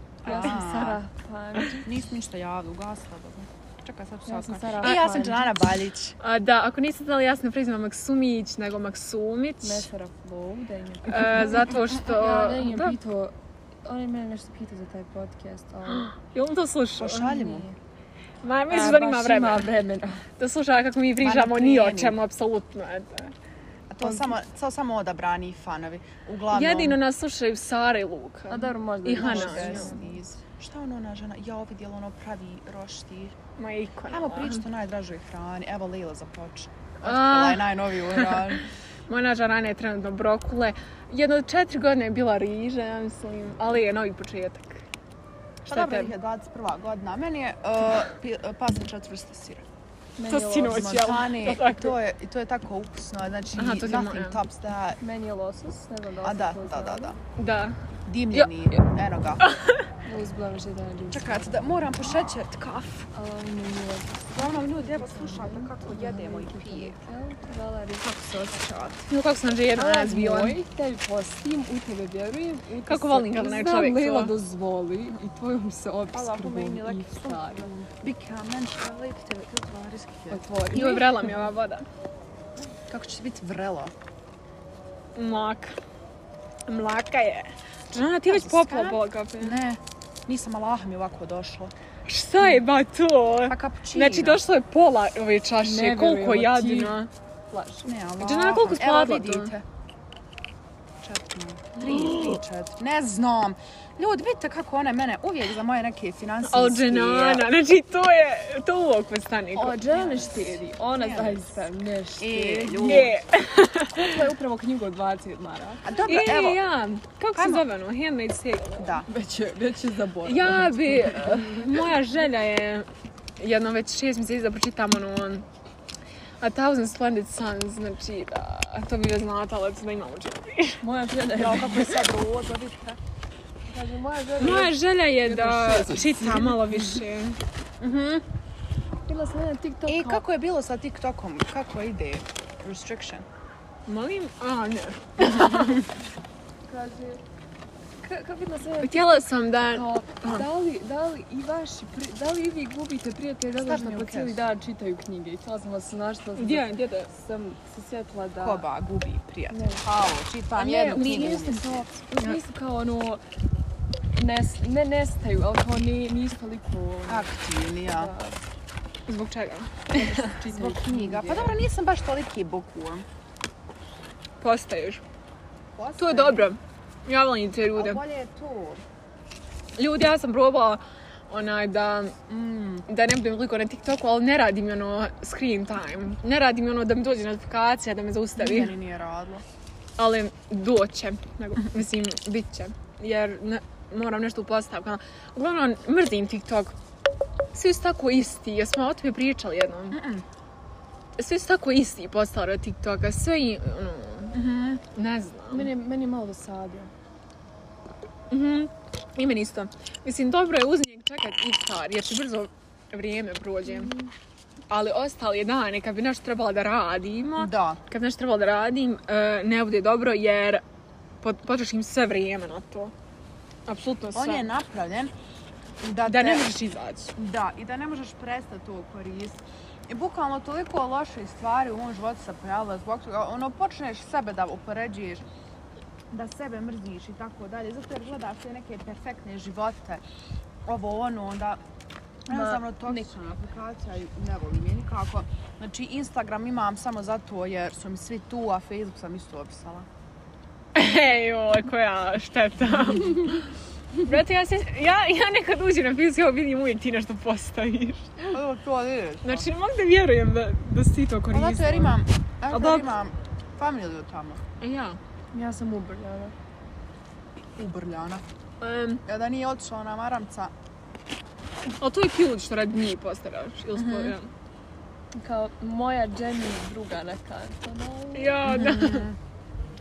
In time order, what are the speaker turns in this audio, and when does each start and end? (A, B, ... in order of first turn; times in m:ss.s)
0:00.2-0:01.0 A
0:00.2-0:01.9 B
0:01.8-0:06.2 A
0:04.2-0:05.6 B
0:04.8-0:05.2 C
0:06.2-0:09.9 C
0:09.6-0:13.3 B
0:11.1-0:13.0 C
0:13.8-0:16.1 B
0:15.9-0:17.3 C
0:17.0-0:17.7 A
0:17.2-0:17.8 B
0:18.4-0:19.7 C
0:18.7-0:20.3 B
0:20.4-0:23.3 C
0:21.2-0:22.2 A
0:23.9-0:27.0 A
0:24.0-0:24.4 B
0:26.5-0:30.0 C
0:28.5-0:30.2 B
0:29.1-0:33.4 A
0:33.6-0:34.6 C
0:34.1-0:38.6 A
0:37.0-0:44.8 C
0:45.7-0:49.6 A
0:45.7-0:46.1 C
0:50.2-0:51.1 B
0:50.2-0:52.0 C
0:50.7-0:55.0 A
0:53.6-0:54.4 C
0:55.0-0:57.2 B
0:56.2-0:57.2 A
0:57.4-0:57.8 C
0:58.0-0:59.4 A
0:58.3-0:58.8 C
0:59.4-0:59.9 C
1:00.0-1:02.2 B
1:01.1-1:03.1 A
1:03.1-1:09.0 B
1:04.3-1:07.0 A
1:08.1-1:09.0 A
1:09.1-1:10.6 C
1:09.8-1:17.7 B
1:12.9-1:14.4 C
1:16.1-1:20.4 A
1:20.3-1:21.3 B
1:20.7-1:21.9 C
1:22.9-1:23.9 A
1:25.2-1:25.8 C
1:26.7-1:29.6 C
1:28.2-1:31.7 A
1:32.0-1:37.1 C
1:33.5-1:34.4 A
1:35.6-1:37.9 B
1:37.8-1:39.7 A
1:38.2-1:39.5 C
1:41.0-1:47.5 A
1:41.8-1:42.4 C
1:46.4-1:49.8 C
1:49.5-1:53.2 B
1:49.9-1:51.5 A
1:52.2-1:53.2 A
1:52.8-1:54.2 C
1:53.9-1:55.8 B
1:55.8-1:56.6 A
1:56.0-1:59.0 C
1:57.3-1:57.7 A
1:58.8-1:59.0 A
1:59.0-2:01.7 B
2:00.2-2:02.9 C
2:03.4-2:05.4 C
2:06.4-2:10.8 C
2:10.8-2:11.9 B
2:11.3-2:13.0 A
2:11.6-2:12.0 C
2:13.7-2:16.7 B
2:14.4-2:17.4 C
2:17.8-2:18.2 A
2:19.1-2:20.2 B
2:19.8-2:23.2 A
2:23.8-2:25.8 C
2:26.7-2:27.2 B
2:28.0-2:38.7 B
2:28.8-2:30.4 C
2:33.5-2:34.4 A
2:36.4-2:37.1 C
2:38.4-2:41.9 A
2:39.5-2:39.8 B
2:40.5-2:43.2 B
2:40.9-2:41.4 C
2:44.2-2:47.3 B
2:47.1-2:48.1 A
2:47.8-2:48.4 B
2:49.1-2:50.3 C
2:49.9-2:51.6 B
2:50.0-2:53.1 A
2:54.4-2:55.0 C
2:55.8-2:56.5 A
2:56.0-2:58.0 C
2:57.8-2:58.8 A
2:59.8-3:02.2 C
3:02.3-3:02.8 A
3:02.9-3:08.8 C
3:08.4-3:09.4 A
3:10.0-3:16.7 C
3:17.5-3:20.0 C
3:19.9-3:20.2 A
3:21.2-3:24.4 C
3:24.3-3:24.8 A
3:24.9-3:25.7 C
3:25.5-3:26.9 B
3:28.3-3:33.9 C
3:33.7-3:34.1 B
3:34.7-3:40.6 C
3:37.4-3:37.8 A
3:41.2-3:42.9 C
3:43.7-3:44.5 C
3:44.1-3:45.1 A
3:45.8-3:46.5 A
3:46.0-3:47.1 C
3:47.2-3:55.2 A
3:56.1-4:00.0 A
4:00.6-4:01.6 A
4:02.3-4:09.9 A
4:02.3-4:03.1 B
4:10.8-4:13.4 C
4:14.0-4:18.3 C
4:18.3-4:19.5 A
4:19.2-4:22.9 C
4:21.3-4:24.4 A
4:24.6-4:25.0 C
4:25.3-4:26.3 B
4:27.6-4:28.2 A
4:28.6-4:29.0 C
4:29.0-4:30.5 A
4:31.8-4:34.3 C
4:33.8-4:34.2 A
4:35.1-4:38.4 B
4:38.1-4:39.1 C
4:38.4-4:39.2 A